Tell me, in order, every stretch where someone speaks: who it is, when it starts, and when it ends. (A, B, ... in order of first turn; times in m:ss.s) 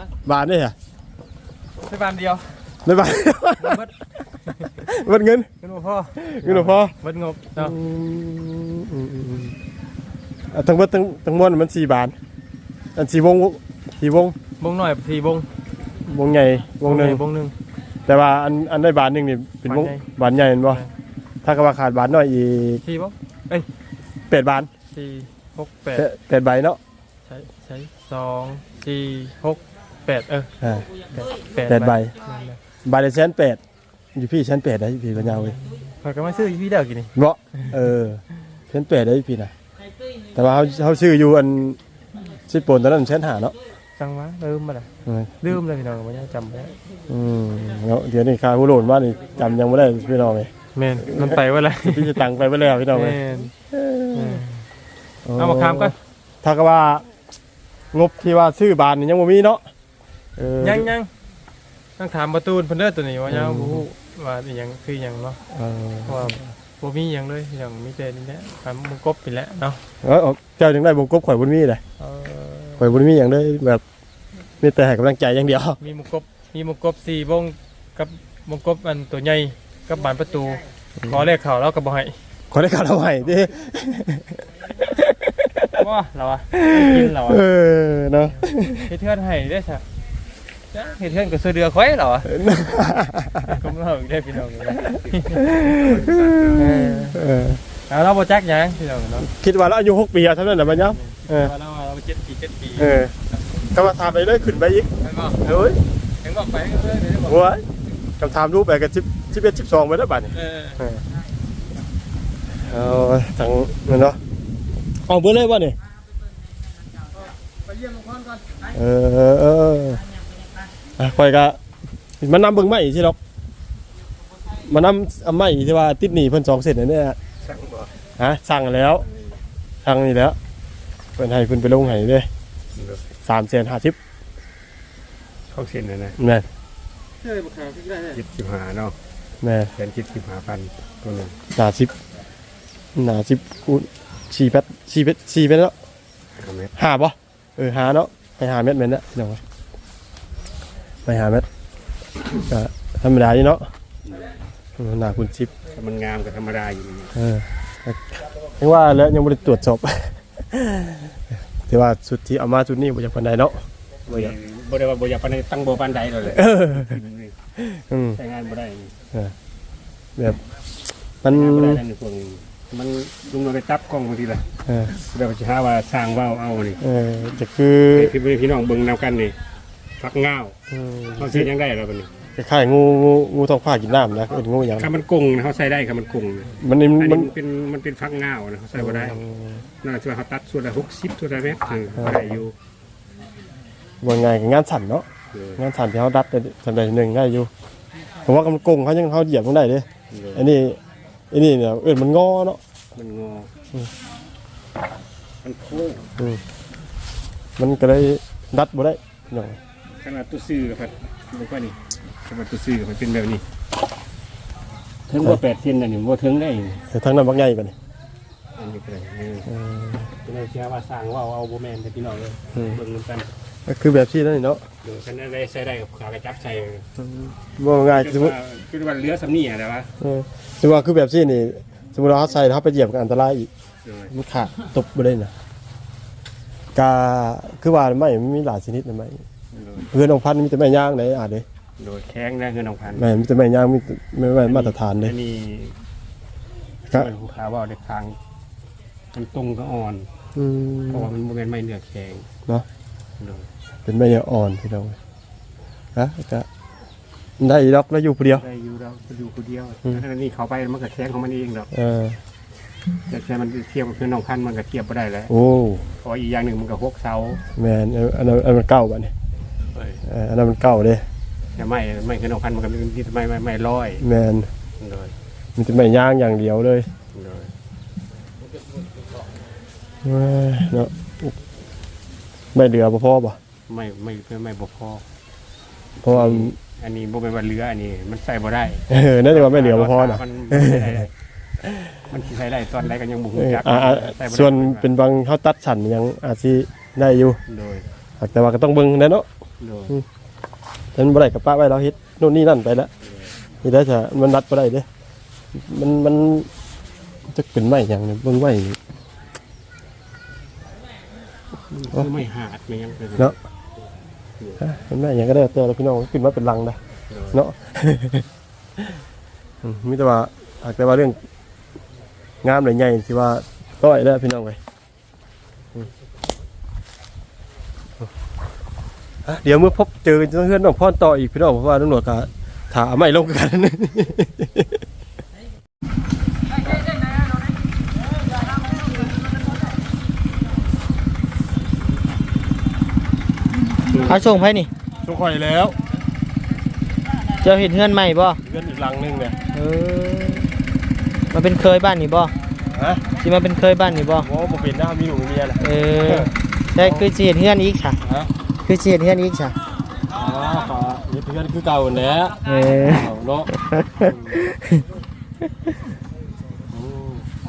0:00.2-0:00.7 A
0:01.8-0:02.7 B
0:02.8-0:03.8 A
0:03.6-0:03.9 B
0:04.8-0:05.5 A
0:05.6-0:07.8 B
0:06.2-0:06.9 A
0:07.6-0:09.6 A
0:10.5-0:12.1 A
0:13.0-0:14.4 A
0:14.6-0:15.5 B
0:16.0-0:17.2 A
0:16.8-0:17.5 B
0:18.1-0:20.8 A
0:19.6-0:20.9 B
0:21.4-0:22.8 A
0:22.8-0:23.7 B
0:24.3-0:24.7 A
0:24.9-0:26.0 B
0:25.9-0:26.8 A
0:27.3-0:30.5 B
0:30.6-0:30.9 A
0:31.1-0:32.6 B
0:31.6-0:32.1 A
0:32.8-0:33.6 A
0:34.1-0:35.6 A
0:36.0-0:37.6 B
0:37.2-0:39.5 A
0:40.3-0:41.8 A
0:42.5-0:43.5 A
0:44.0-0:44.9 B
0:45.0-0:45.4 A
0:45.4-0:46.8 B
0:47.1-0:50.5 A
0:50.7-0:52.2 B
0:51.0-0:54.4 A
0:52.9-0:53.5 B
0:54.1-0:54.6 B
0:55.2-0:57.0 A
0:55.4-0:55.9 B
0:57.9-0:59.6 A
1:00.4-1:00.9 A
1:00.6-1:01.1 B
1:02.0-1:05.4 B
1:03.3-1:03.9 A
1:05.5-1:06.4 A
1:06.1-1:09.8 B
1:10.0-1:11.8 A
1:12.0-1:12.9 B
1:12.8-1:13.8 A
1:14.6-1:15.8 A
1:15.8-1:22.2 B
1:22.5-1:24.4 A
1:25.0-1:25.8 A
1:25.8-1:27.4 B
1:26.5-1:28.8 A
1:28.7-1:29.8 B
1:30.7-1:32.3 B
1:32.2-1:33.5 A
1:33.5-1:35.4 B
1:35.0-1:36.7 C
1:35.4-1:37.6 A
1:36.5-1:37.2 B
1:37.9-1:39.3 B
1:39.4-1:41.5 A
1:40.7-1:43.0 B
1:42.8-1:43.1 A
1:43.7-1:44.9 A
1:45.0-1:47.4 B
1:45.5-1:45.7 A
1:47.2-1:47.6 A
1:48.2-1:51.0 A
1:50.4-1:50.8 B
1:52.6-1:54.2 A
1:55.1-1:55.8 A
1:58.7-2:00.0 A
2:01.0-2:01.6 A
2:02.2-2:03.2 A
2:04.6-2:07.2 A
2:07.4-2:07.9 C
2:08.2-2:09.0 A
2:09.0-2:09.4 C
2:09.8-2:10.4 A
2:11.2-2:12.3 A
2:12.7-2:13.0 C
2:13.2-2:14.0 A
2:15.5-2:16.2 C
2:16.2-2:16.4 A
2:17.2-2:18.1 B
2:18.1-2:18.9 C
2:19.4-2:19.7 A
2:19.7-2:21.3 C
2:21.5-2:21.9 A
2:22.9-2:25.7 A
2:26.4-2:26.7 C
2:26.7-2:29.4 A
2:31.0-2:31.4 A
2:32.5-2:33.7 A
2:34.0-2:34.3 C
2:34.8-2:35.5 A
2:35.7-2:37.1 C
2:37.1-2:41.1 A
2:41.7-2:44.3 A
2:44.1-2:47.3 C
2:46.3-2:47.0 A
2:47.6-2:48.2 A
2:48.2-2:48.9 C
2:51.2-2:51.8 A
2:51.2-2:56.8 C
2:54.6-2:54.9 A
2:56.8-2:58.1 A
2:57.9-2:59.4 C
3:00.0-3:00.6 C
3:00.7-3:01.5 A
3:01.2-3:02.1 C
3:02.4-3:04.9 A
3:04.3-3:09.2 C
3:06.6-3:07.3 A
3:08.8-3:09.6 A
3:09.8-3:12.5 C
3:12.0-3:12.4 A
3:14.0-3:17.5 A
3:15.3-3:15.6 C
3:18.2-3:20.8 A
3:20.1-3:20.4 C
3:21.3-3:22.6 A
3:23.0-3:23.5 C
3:25.4-3:26.1 C
3:27.6-3:29.6 A
3:30.0-3:33.4 C
3:35.1-3:36.8 C
3:36.9-3:37.7 A
3:38.6-3:39.5 C
3:39.5-3:40.1 A
3:40.2-3:43.3 C
3:43.7-3:44.6 A
3:44.8-3:46.8 C
3:47.0-3:48.3 A
3:47.9-3:49.9 C
3:50.0-3:53.5 A
3:53.8-3:54.1 C
3:54.1-3:55.3 A
3:56.7-3:59.2 A
3:59.5-3:59.9 C
3:59.8-4:01.4 A
4:01.8-4:03.1 C
4:03.0-4:05.1 A
4:04.4-4:05.8 C
4:06.9-4:08.2 C
4:09.1-4:10.1 C
4:10.3-4:11.1 A
4:10.9-4:12.3 C
4:13.2-4:13.5 C
4:13.8-4:15.0 A
4:15.9-4:16.4 A
4:17.4-4:18.4 A
4:18.2-4:21.7 C
4:21.7-4:22.2 A
4:23.1-4:25.3 C
4:25.3-4:25.8 A
4:26.0-4:27.4 C
4:27.6-4:29.1 A
4:29.7-4:30.0 C
4:30.0-4:31.0 A
4:31.6-4:34.0 C
4:34.0-4:34.5 A
4:34.8-4:35.1 C
4:35.6-4:36.9 A
4:37.1-4:37.5 C
4:40.0-4:41.3 A
4:42.5-4:43.4 A
4:43.7-4:45.0 C
4:46.0-4:46.6 A
4:46.1-4:51.1 C
4:48.9-4:51.0 A
4:51.6-4:52.0 A
4:52.1-4:54.8 C
4:53.4-4:57.4 A
4:57.5-4:57.8 C
4:58.2-4:59.2 A
4:59.6-4:59.9 C
5:00.9-5:02.9 A
5:03.0-5:03.3 C
5:03.6-5:04.8 A
5:05.5-5:06.5 A
5:07.3-5:08.8 A
5:11.7-5:13.4 C
5:14.6-5:16.8 A
5:17.1-5:17.4 C
5:17.3-5:18.2 A
5:19.6-5:21.2 A
5:22.4-5:24.6 A
5:29.2-5:34.8 A
5:44.0-5:44.7 D
5:45.0-5:45.8 A
5:47.4-5:48.4 D
5:48.4-5:49.3 A
5:49.5-5:50.5 D
5:51.3-5:52.3 D
5:52.8-5:53.0 A
5:53.2-5:54.3 D
5:54.2-5:57.1 A
5:55.6-5:58.0 D
5:58.0-5:58.3 A
5:58.6-5:59.5 D
6:00.1-6:04.4 A
6:02.4-6:04.8 D
6:06.7-6:07.2 A